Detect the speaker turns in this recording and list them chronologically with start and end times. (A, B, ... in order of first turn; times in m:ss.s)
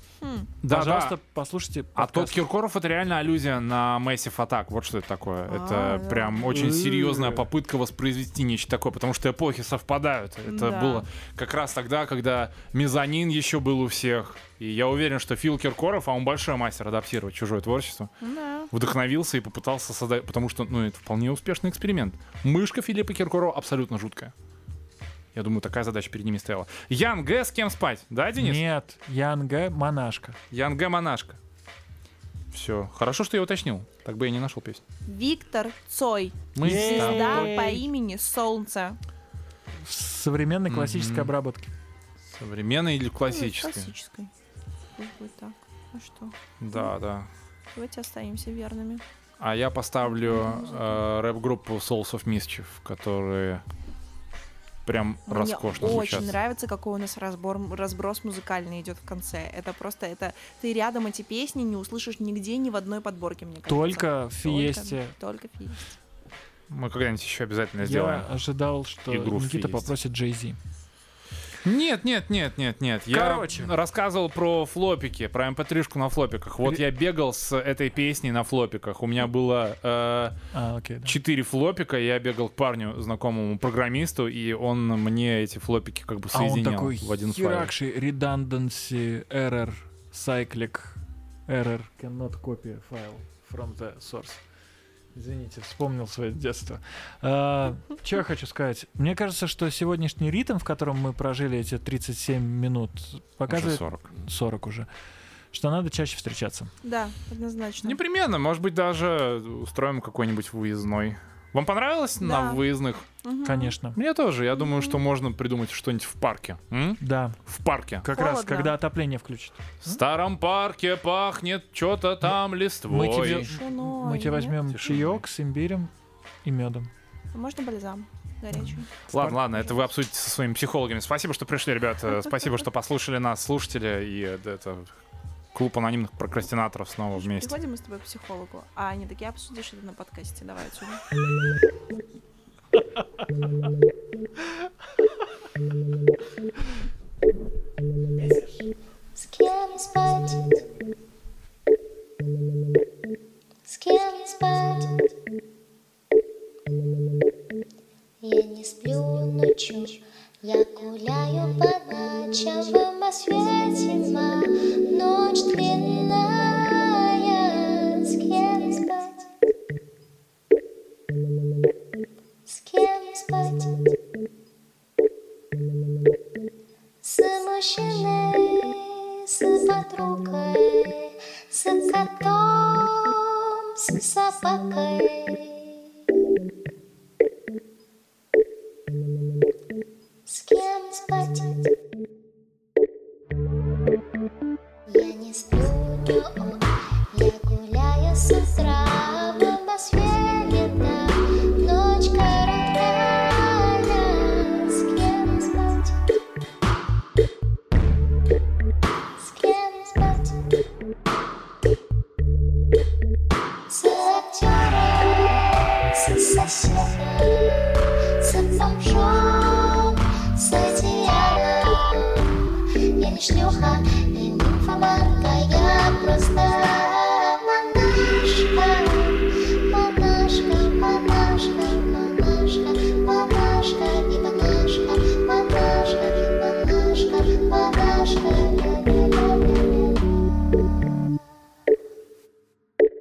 0:00.2-0:00.5 A
0:00.6-0:01.2 B
0:00.7-0:02.4 C
0:02.0-0:18.1 B
0:05.5-0:06.5 A
0:06.5-0:07.4 C
0:10.5-0:11.0 A
0:18.2-0:18.7 A
0:18.7-0:24.3 B
0:25.3-0:28.6 B
0:28.4-0:30.4 C
0:30.5-0:31.4 B
0:32.5-0:34.8 B
0:35.0-0:39.0 A
0:36.5-0:37.5 B
0:36.6-0:37.8 C
0:39.8-0:41.7 C
0:40.7-0:41.3 B
0:42.2-0:43.9 B
0:43.3-0:44.3 A
0:45.0-0:46.9 A
0:46.6-0:47.3 B
0:47.7-0:49.0 A
0:49.4-0:53.6 B
0:50.2-0:51.0 A
0:54.8-0:56.4 B
0:55.3-1:05.9 A
1:03.7-1:05.1 C
1:06.7-1:08.3 B
1:07.8-1:10.6 C
1:09.1-1:09.9 B
1:11.6-1:20.4 B
1:13.1-1:13.7 C
1:20.5-1:21.2 C
1:21.0-1:27.7 B
1:26.3-1:34.4 C
1:35.1-1:44.9 C
1:43.5-1:44.1 B
1:45.5-1:46.7 C
1:46.8-1:48.0 A
1:47.8-1:53.1 B
1:52.2-1:52.6 A
1:53.2-1:53.7 A
1:53.4-1:54.0 C
1:53.9-1:58.0 B
1:54.6-1:55.0 A
1:57.0-1:57.4 C
1:58.0-2:00.0 C
1:58.1-1:58.8 A
1:59.8-2:03.5 B
2:02.9-2:05.9 C
2:03.3-2:04.6 A
2:04.7-2:05.2 B
2:06.4-2:06.9 C
2:07.3-2:08.9 A
2:08.5-2:09.4 C
2:09.1-2:14.9 B
2:15.5-2:17.5 B
2:17.2-2:21.0 A
2:29.2-2:30.6 D
2:33.6-2:35.1 D
2:38.2-2:49.3 D
2:52.4-2:53.9 D
2:57.0-3:05.8 D
3:10.2-3:11.7 D
3:14.9-3:26.0 D
3:29.2-3:30.6 D
3:33.7-3:42.4 D
3:43.0-4:00.4 D